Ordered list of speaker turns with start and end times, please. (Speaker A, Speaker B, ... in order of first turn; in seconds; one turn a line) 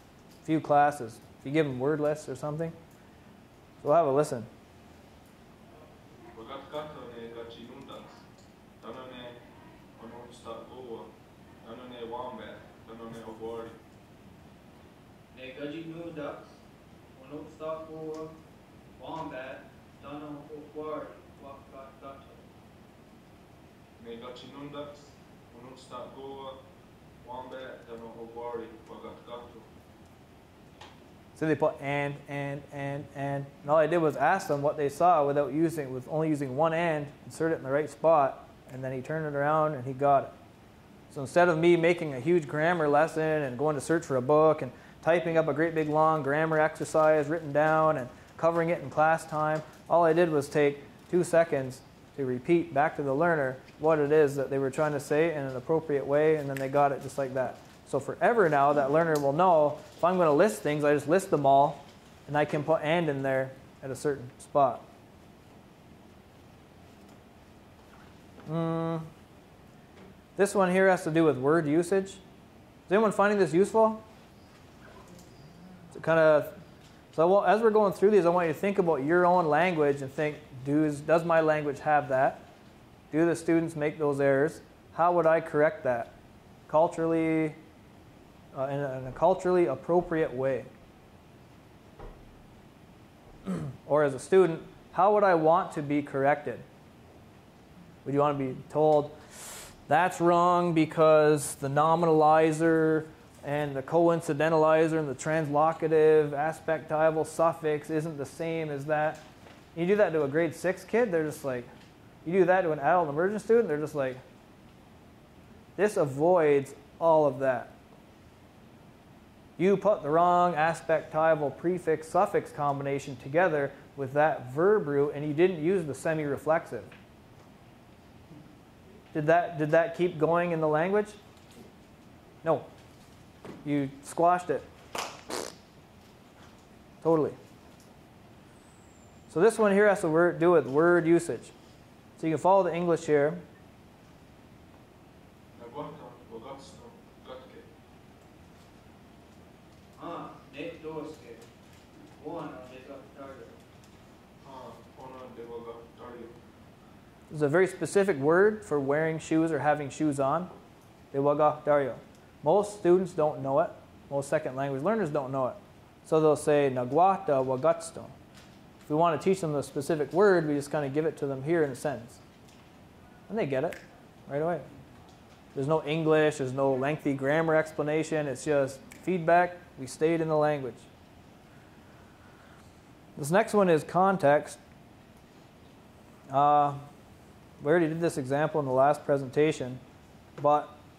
Speaker A: 0.4-2.8
Speaker A: 3.8-4.5
Speaker B: 6.3-8.2
Speaker B: 8.8-9.4
Speaker B: 10.0-11.1
Speaker B: 11.6-13.8
Speaker C: 15.3-16.6
Speaker C: 17.1-18.4
Speaker C: 19.0-22.5
Speaker B: 24.0-26.6
Speaker B: 27.2-29.7
Speaker A: 31.4-40.3
Speaker A: 41.1-64.8
Speaker A: 68.5-69.1
Speaker A: 70.4-72.2
Speaker A: 72.9-74.0
Speaker A: 75.9-76.5
Speaker A: 77.1-82.5
Speaker A: 83.1-86.2
Speaker A: 86.7-87.6
Speaker A: 88.5-90.7
Speaker A: 93.5-96.7
Speaker A: 98.0-111.7
Speaker A: 112.2-114.2
Speaker A: 115.8-117.7
Speaker A: 119.6-126.9
Speaker A: 129.1-131.2
Speaker A: 132.4-132.7
Speaker A: 133.6-134.7
Speaker A: 137.0-137.4
Speaker A: 139.3-141.5
Speaker A: 142.2-143.4
Speaker B: 145.6-147.7
Speaker C: 150.0-151.4
Speaker C: 152.2-153.6
Speaker B: 154.4-156.3
Speaker A: 157.3-160.5
Speaker A: 161.1-168.1
Speaker A: 168.9-172.2
Speaker A: 173.3-174.7
Speaker A: 175.6-180.9
Speaker A: 183.2-184.6
Speaker A: 186.3-186.9
Speaker A: 187.6-189.8
Speaker A: 190.4-190.8